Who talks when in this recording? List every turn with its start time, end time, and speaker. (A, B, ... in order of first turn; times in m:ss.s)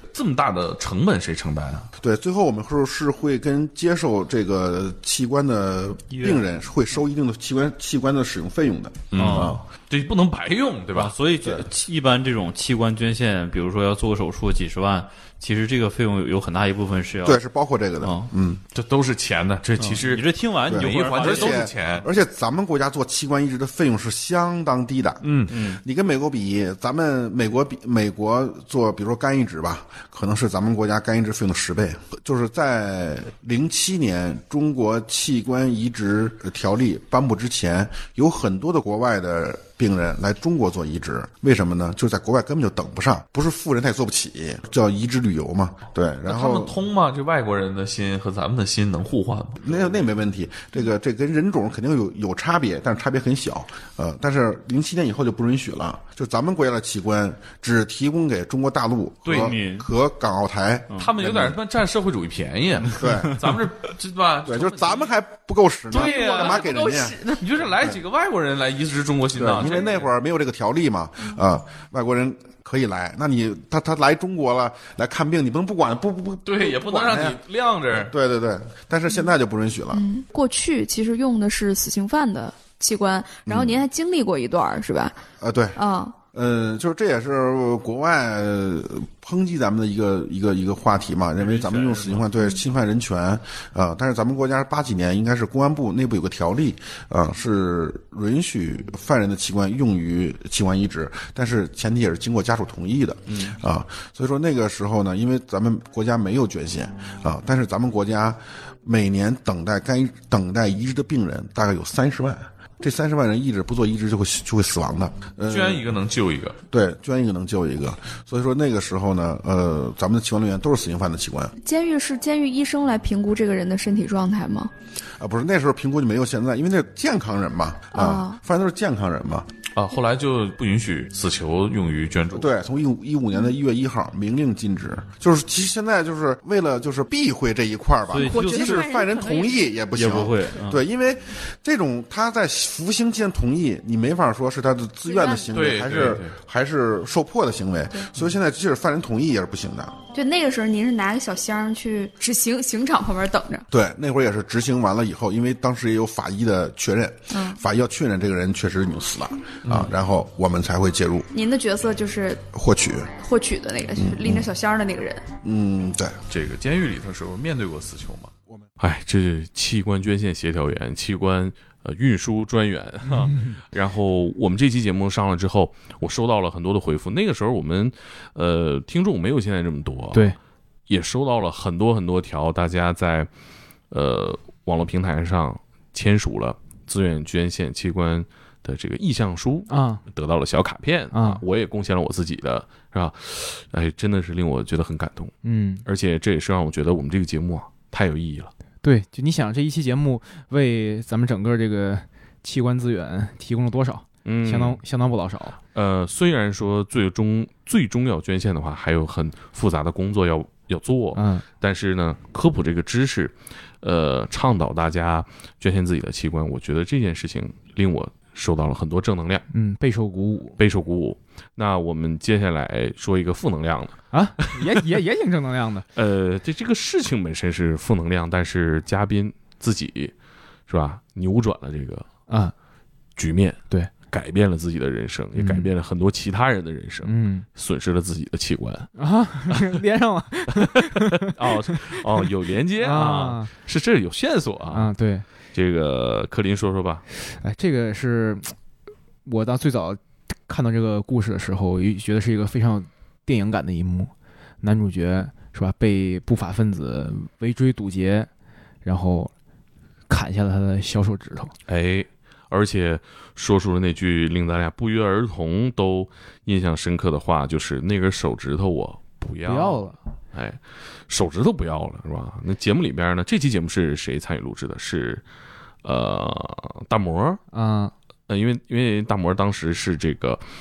0:00.1-0:01.9 A
0:02.0-0:09.6 B
0:06.1-0:06.5 C
0:09.1-0:11.1 A
0:09.1-0:09.6 C
0:10.9-0:17.4 C
0:17.2-0:18.6 B
0:18.0-0:18.3 C
0:18.7-0:22.0 A
0:19.8-0:21.7 C
0:20.6-0:46.7 B
0:25.5-0:25.8 C
0:46.2-0:50.0 A
0:49.6-1:01.6 B
0:59.2-0:59.6 A
0:59.3-0:59.9 C
1:01.0-1:05.1 A
1:02.9-1:03.4 B
1:04.4-1:07.2 B
1:05.9-1:10.1 A
1:06.1-1:06.4 D
1:09.3-1:17.4 B
1:16.4-1:18.1 A
1:17.9-1:20.0 B
1:19.9-1:25.2 D
1:23.4-1:23.8 B
1:25.4-1:25.8 B
1:25.8-1:26.2 D
1:26.3-1:55.9 B
1:31.6-1:32.1 C
1:55.5-1:56.6 A
1:56.7-2:01.5 B
2:01.6-2:04.7 D
2:05.2-2:09.5 B
2:07.9-2:08.4 D
2:09.8-2:12.5 A
2:12.3-2:30.0 B
2:18.1-2:18.9 C
2:18.2-2:19.7 D
2:19.9-2:20.8 C
2:25.0-2:25.4 D
2:25.5-2:26.3 A
2:30.1-2:33.7 D
2:33.7-2:41.3 B
2:37.3-2:37.6 D
2:39.6-2:39.9 A
2:41.3-2:42.4 D
2:42.5-2:43.1 B
2:43.2-2:45.2 D
2:44.0-2:44.5 B
2:45.4-2:46.2 B
2:46.3-3:00.3 A
3:00.9-3:03.3 A
3:03.9-3:15.3 A
3:09.7-3:10.0 E
3:11.1-3:11.4 E
3:15.4-3:15.8 E
3:15.8-3:18.5 A
3:18.8-3:25.6 E
3:24.2-3:24.8 A
3:25.7-3:39.4 A
3:31.1-3:31.4 E
3:39.5-3:40.6 E
3:40.6-3:44.8 A
3:44.1-3:45.9 E
3:45.9-3:50.1 A
3:50.7-3:52.1 A
3:52.3-3:52.5 E
3:53.2-3:58.9 A
3:55.3-3:55.7 E
3:57.0-3:57.4 E
3:59.0-4:01.3 E
4:01.2-4:04.9 A
4:02.8-4:03.5 E
4:04.7-4:05.2 E
4:05.5-4:07.0 A
4:07.2-4:08.5 E
4:09.2-4:18.3 E
4:18.8-4:19.3 E
4:20.1-4:21.5 E
4:21.7-4:35.2 A
4:29.4-4:30.0 E
4:35.8-4:37.4 A
4:37.5-4:37.9 E
4:38.3-4:40.4 A